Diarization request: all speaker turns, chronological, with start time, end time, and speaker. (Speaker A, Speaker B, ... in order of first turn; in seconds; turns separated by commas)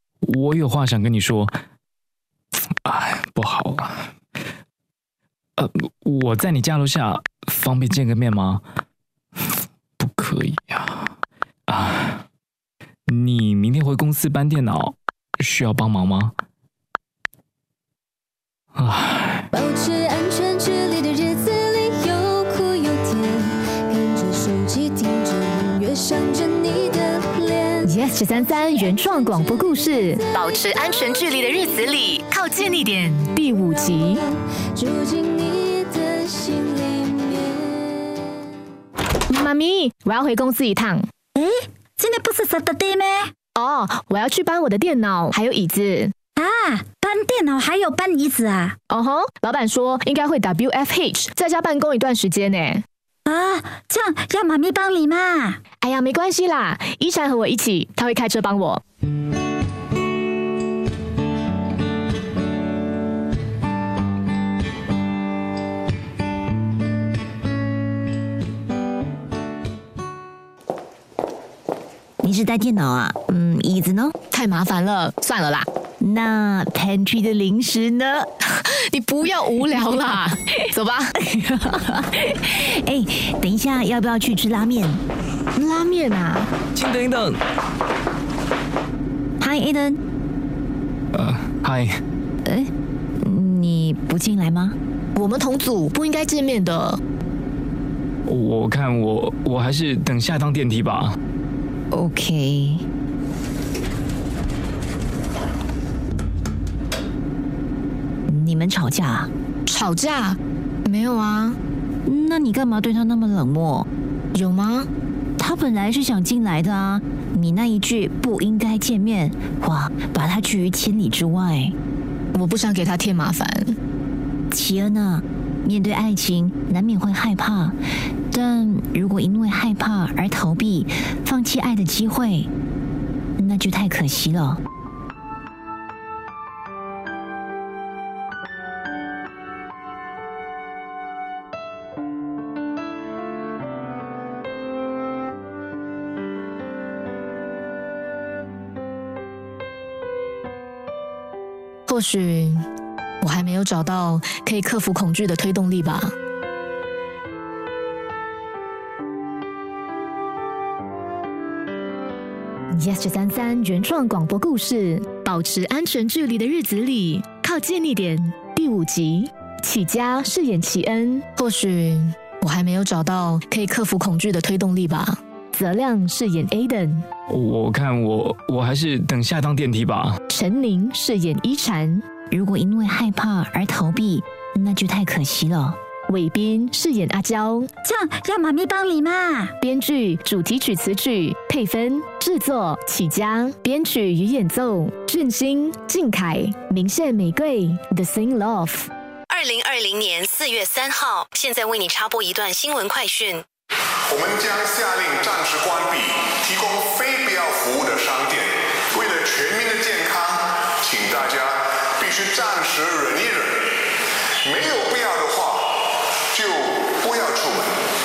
Speaker A: 0.2-1.5, Speaker A: 2.8-4.1, Speaker A: 5.6-8.6, Speaker A: 10.0-11.1, Speaker A: 11.7-12.2, Speaker A: 13.1-16.3, Speaker A: 18.8-19.4, Speaker B: 19.5-27.8, Speaker C: 27.8-34.2, Speaker B: 34.7-37.8, Speaker C: 39.3-41.1, Speaker D: 41.4-43.3, Speaker C: 43.5-46.1, Speaker D: 46.4-48.8, Speaker C: 48.9-52.8, Speaker D: 53.3-55.6, Speaker C: 55.8-58.8, Speaker E: 72.2-74.2, Speaker C: 74.3-75.7, Speaker E: 76.0-78.3, Speaker C: 78.5-81.1, Speaker E: 81.2-85.0, Speaker C: 85.5-86.5, Speaker A: 86.8-87.4, Speaker E: 89.4-90.0, Speaker A: 91.1-92.0, Speaker E: 92.4-94.8, Speaker C: 95.2-97.0, Speaker A: 98.3-101.2, Speaker E: 101.9-102.8, Speaker E: 108.3-109.3, Speaker C: 109.7-111.6, Speaker E: 112.1-113.9, Speaker C: 114.3-114.9, Speaker E: 115.4-121.8, Speaker C: 122.3-123.8, Speaker E: 124.5-127.8, Speaker E: 128.3-132.5, Speaker E: 133.4-134.6, Speaker C: 151.9-152.6, Speaker C: 153.2-156.1, Speaker C: 162.7-177.1, Speaker A: 177.3-180.2, Speaker C: 180.3-182.0, Speaker E: 182.3-185.8, Speaker C: 186.1-187.7, Speaker D: 187.8-189.5, Speaker C: 189.6-198.9, Speaker F: 199.3-203.4, Speaker G: 204.1-213.8, Speaker G: 214.4-217.8